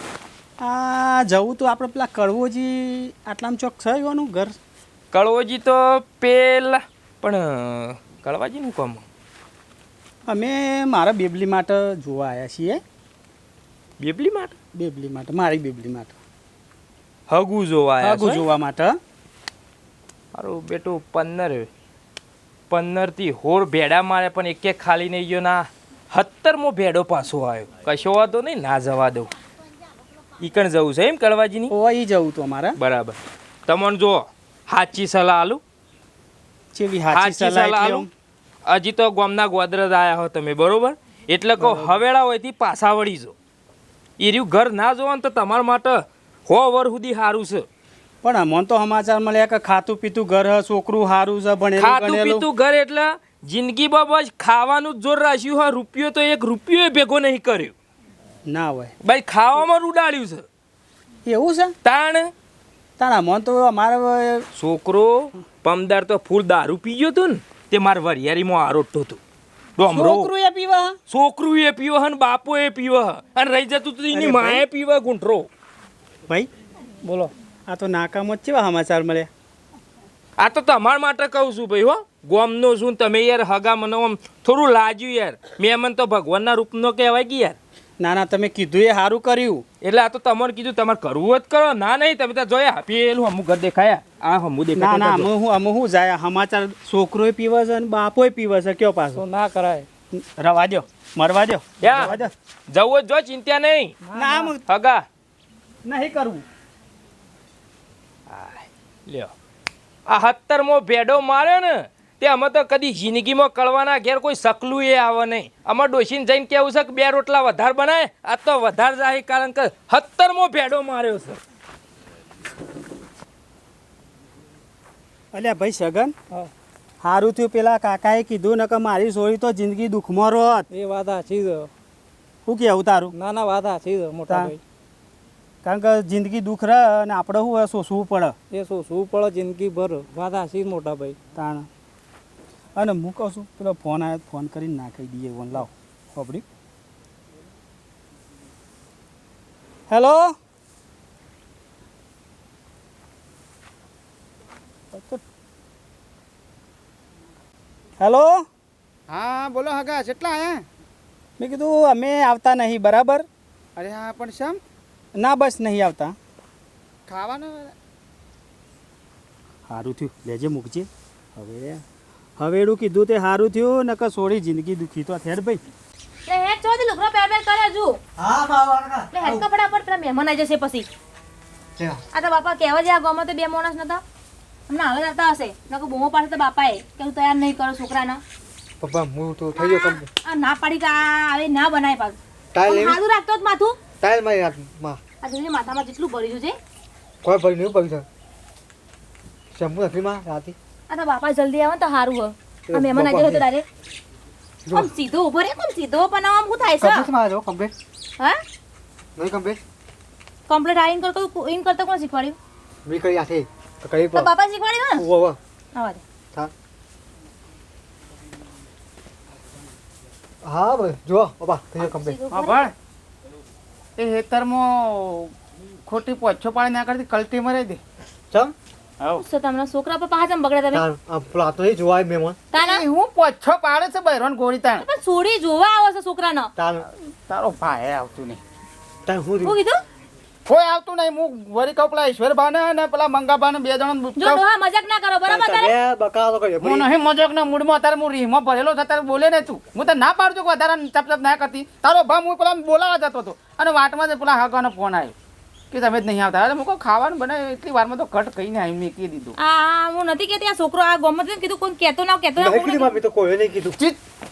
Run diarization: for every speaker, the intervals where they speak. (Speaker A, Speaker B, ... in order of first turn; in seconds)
Speaker A: 0.6-4.6, 10.3-12.8, 14.8-16.2, 18.0-19.0, 31.7-32.8, 36.7-38.1, 41.6-42.0, 48.2-52.5, 58.5-58.9, 61.3-61.7, 63.0-64.5, 69.9-71.0, 74.1-74.7, 77.0-79.3, 88.0-89.6, 94.8-99.2, 100.2-102.3, 104.1-104.6, 105.8-106.4, 125.3-126.1, 127.0-130.7, 132.4-133.1, 134.3-134.6, 135.6-138.4, 141.3-141.7, 142.8-146.4, 149.9-150.4, 154.9-155.2, 158.0-158.5, 161.4-163.3, 165.2-166.2, 169.7-171.8, 172.4-175.6
Speaker B: 5.1-9.0, 14.0-14.6, 17.3-18.5, 20.3-21.7, 22.7-29.3, 30.4-31.7, 32.8-35.6, 37.1-38.1, 38.7-43.3, 44.2-47.7, 51.8-57.7, 59.0-60.5, 61.9-62.3, 64.6-69.2, 69.8-70.3, 71.1-75.5, 80.4-87.6, 89.8-95.3, 101.8-102.2, 102.7-104.0, 104.7-105.0, 108.3-109.3, 110.1-121.4
Speaker C: 99.2-99.9, 104.1-104.5, 130.7-131.7, 133.1-134.6, 138.5-141.2
Speaker D: 159.1-160.7, 163.8-164.6, 167.1-167.7, 222.3-222.7, 224.0-225.3, 225.9-227.8, 232.5-234.9, 237.3-238.4, 240.5-244.4, 246.6-255.1, 255.7-259.4
Speaker E: 176.3-178.0, 179.1-180.9, 182.1-184.0, 184.7-188.2, 189.6-193.8, 195.2-196.6, 200.9-203.7, 204.7-207.1, 210.5-212.4, 214.1-215.1, 215.8-216.0, 221.8-222.7, 229.2-230.8, 232.5-232.9, 234.8-236.5, 239.4-239.8, 244.2-245.7, 259.4-263.0
Speaker F: 178.2-179.4, 188.8-190.1, 192.5-193.0, 194.0-195.0, 197.2-198.1, 199.5-200.6, 202.7-203.5, 204.7-204.9, 206.8-207.7, 209.2-209.6, 212.8-214.3, 215.0-215.4, 220.4-222.2, 230.7-232.4, 236.6-236.9, 239.1-239.6, 245.3-246.9, 262.4-263.8